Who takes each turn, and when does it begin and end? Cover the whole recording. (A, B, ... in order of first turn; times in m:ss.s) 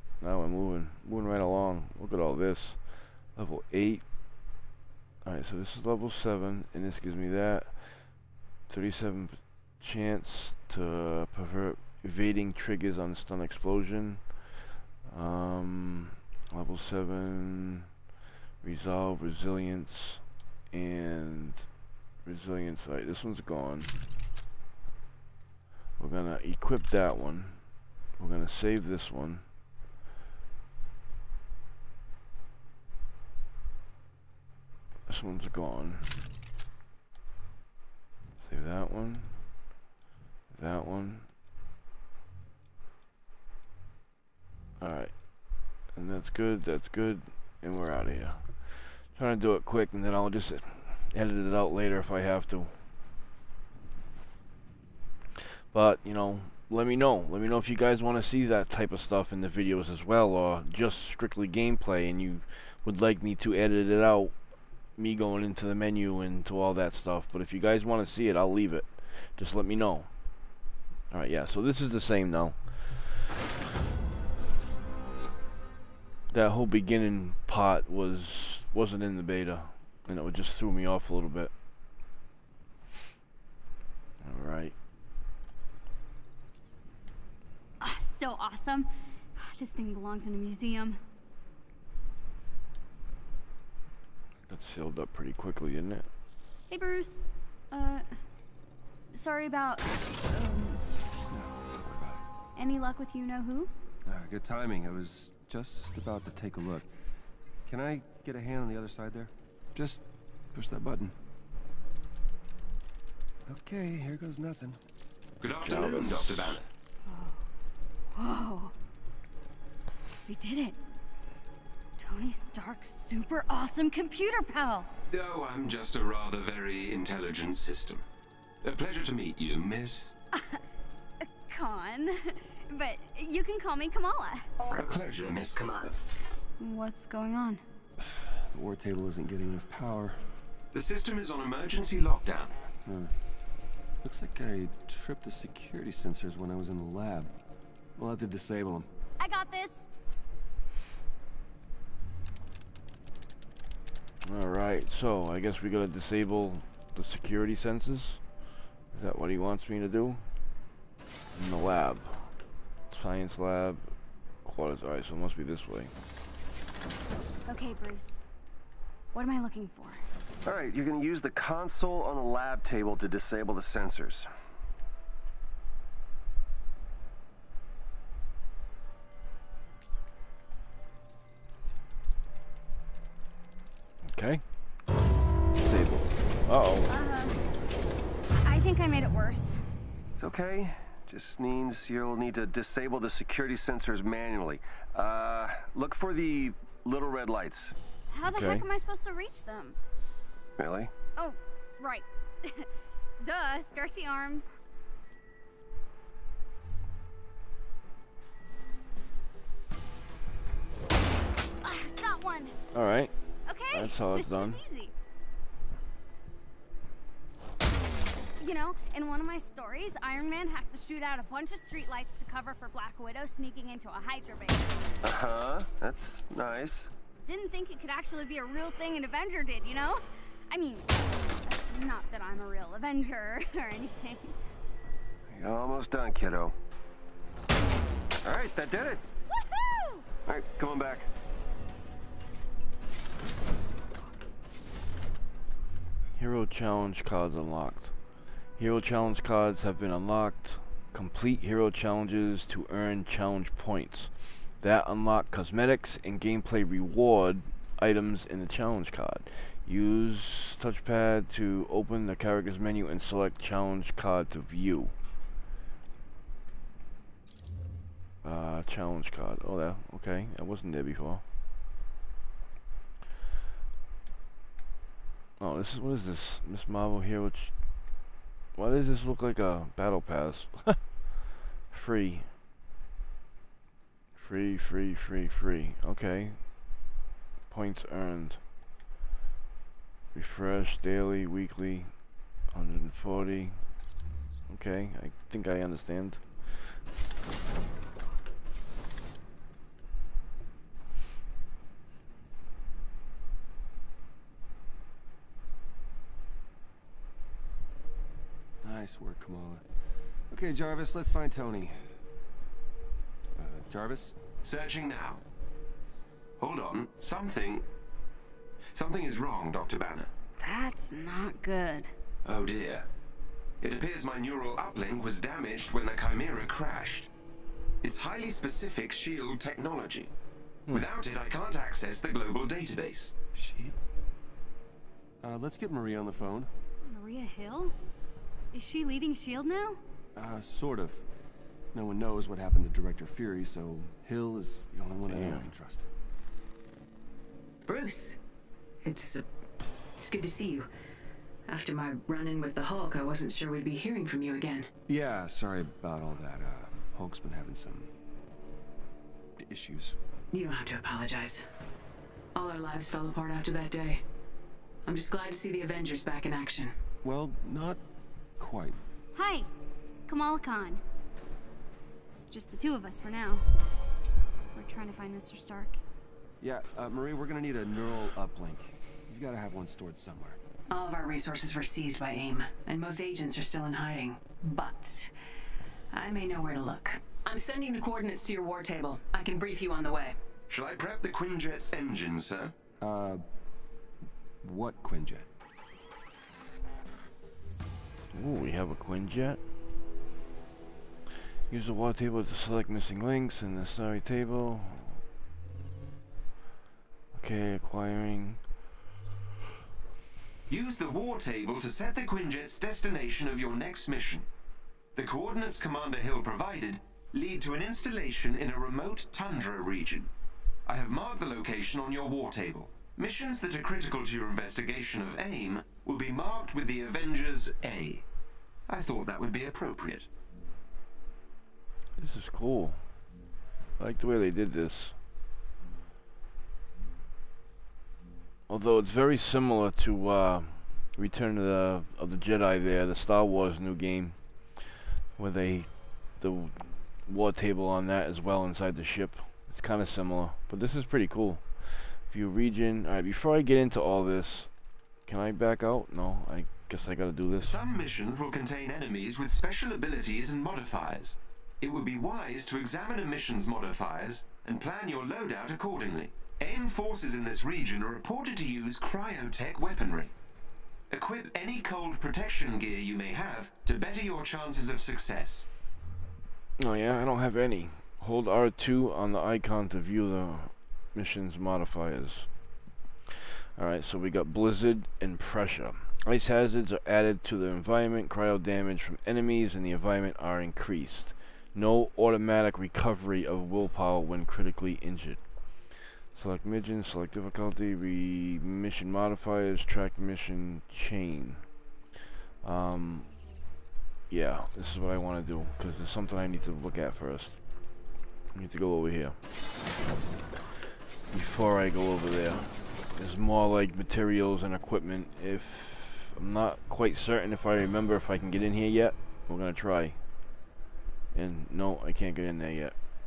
0:00.2-0:02.8 A
0:03.4-0:04.0 A
0:05.2-0:07.8 A
0:08.7-0:14.2 A
0:15.1-0:17.9 A
0:18.6-0:21.6 A
0:22.2-0:23.9 A
0:26.0-0:27.6 A
0:28.2-0:29.5 A
0:35.1-0:36.1 A
0:38.4-0:39.4 A
0:40.5-0:41.3 A
0:44.8-0:45.1 A
0:45.9-0:48.5 A
0:49.1-0:52.7 A
0:55.7-1:04.4 A
1:05.0-1:10.1 A
1:11.1-1:12.6 A
1:16.3-1:21.5 A
1:24.2-1:24.8 A
1:27.8-1:31.0 B
1:34.5-1:36.1 A
1:36.7-1:38.1 B
1:39.1-1:40.9 B
1:41.3-1:42.2 C
1:42.6-1:43.7 B
1:44.1-1:46.9 C
1:47.7-1:50.0 C
1:50.5-1:51.2 C
1:53.5-1:54.8 C
1:55.4-1:56.7 D
1:55.6-1:56.6 A
1:57.1-1:57.4 B
1:58.1-1:58.7 B
2:00.3-2:00.8 B
2:02.0-2:04.9 B
2:05.1-2:08.0 D
2:08.6-2:10.1 D
2:10.4-2:10.6 B
2:11.2-2:14.5 B
2:14.6-2:16.0 D
2:16.6-2:17.6 B
2:18.1-2:20.2 C
2:20.7-2:22.6 D
2:22.9-2:23.1 C
2:24.0-2:27.3 C
2:28.0-2:28.9 C
2:29.2-2:29.9 B
2:34.2-2:38.2 A
2:38.9-2:40.2 A
2:41.4-2:42.3 A
2:42.9-2:43.9 A
2:44.4-2:45.9 A
2:47.5-2:48.2 B
2:49.1-2:50.0 B
2:50.4-2:54.3 C
3:04.1-3:04.4 A
3:05.6-3:06.9 A
3:06.9-3:07.5 B
3:08.4-3:09.6 B
3:10.2-3:17.7 C
3:18.1-3:19.8 B
3:18.3-3:18.6 A
3:20.6-3:20.9 C
3:21.2-3:22.7 B
3:23.2-3:24.5 B
3:31.6-3:32.6 B
3:32.7-3:33.1 A
3:33.5-3:34.9 B
3:33.7-3:34.6 A
3:38.4-3:44.8 B
3:45.0-3:46.9 C
3:47.3-3:54.3 B
3:55.3-3:56.6 C
3:58.2-3:59.0 C
3:59.3-4:00.0 B
4:00.3-4:01.1 C
4:06.2-4:07.9 A
4:08.6-4:24.9 A
4:28.2-4:31.2 A
4:35.4-4:37.5 A
4:38.6-4:40.8 A
4:41.7-4:42.3 A
4:44.2-4:46.4 A
4:47.5-4:48.4 A
4:50.1-4:51.9 A
4:52.5-4:53.6 A
4:54.5-4:56.7 A
5:08.6-5:09.6 C
5:10.3-5:11.8 C
5:13.4-5:14.2 C
5:14.4-5:15.2 D
5:16.4-5:17.6 D
5:18.7-5:20.1 D
5:20.4-5:21.9 B
5:22.2-5:22.9 D
5:23.6-5:27.1 D
5:27.8-5:30.1 D
5:30.7-5:33.1 D
5:33.3-5:33.8 C
5:35.2-5:36.5 C
5:36.8-5:37.7 B
5:38.5-5:39.8 B
5:40.2-5:41.0 C
5:41.7-5:45.9 C
5:45.1-5:45.5 A
5:47.7-5:48.2 E
5:48.8-5:49.2 E
5:50.0-5:50.7 E
5:51.5-5:54.7 E
5:54.9-5:57.9 C
5:59.4-6:00.0 C
6:00.3-6:01.5 E
6:02.4-6:04.0 E
6:04.8-6:06.7 E
6:07.0-6:07.8 C
6:08.4-6:08.8 C
6:09.2-6:09.5 B
6:10.1-6:10.8 B
6:12.1-6:13.5 B
6:14.5-6:15.8 B
6:16.4-6:20.4 C
6:20.7-6:25.1 E
6:25.9-6:30.2 E
6:30.5-6:32.5 D
6:32.8-6:33.2 C
6:34.4-6:35.3 C
6:38.1-6:39.4 A
6:41.5-6:45.0 A
6:47.1-6:48.4 A
6:50.5-6:54.3 D
6:55.0-7:00.1 D
7:00.7-7:08.0 D
7:08.7-7:10.1 D
7:12.0-7:12.8 A
7:13.8-7:15.0 A
7:18.5-7:24.2 A
7:25.2-7:34.5 A
7:35.1-7:37.6 A
7:37.4-7:50.1 D
7:50.9-7:55.5 D
7:56.6-8:02.3 A
8:03.1-8:15.2 A
8:16.2-8:21.5 A
8:22.4-8:23.1 A
8:24.1-8:27.4 A
8:28.3-8:29.2 A
8:31.1-8:40.0 A
8:41.1-8:42.8 A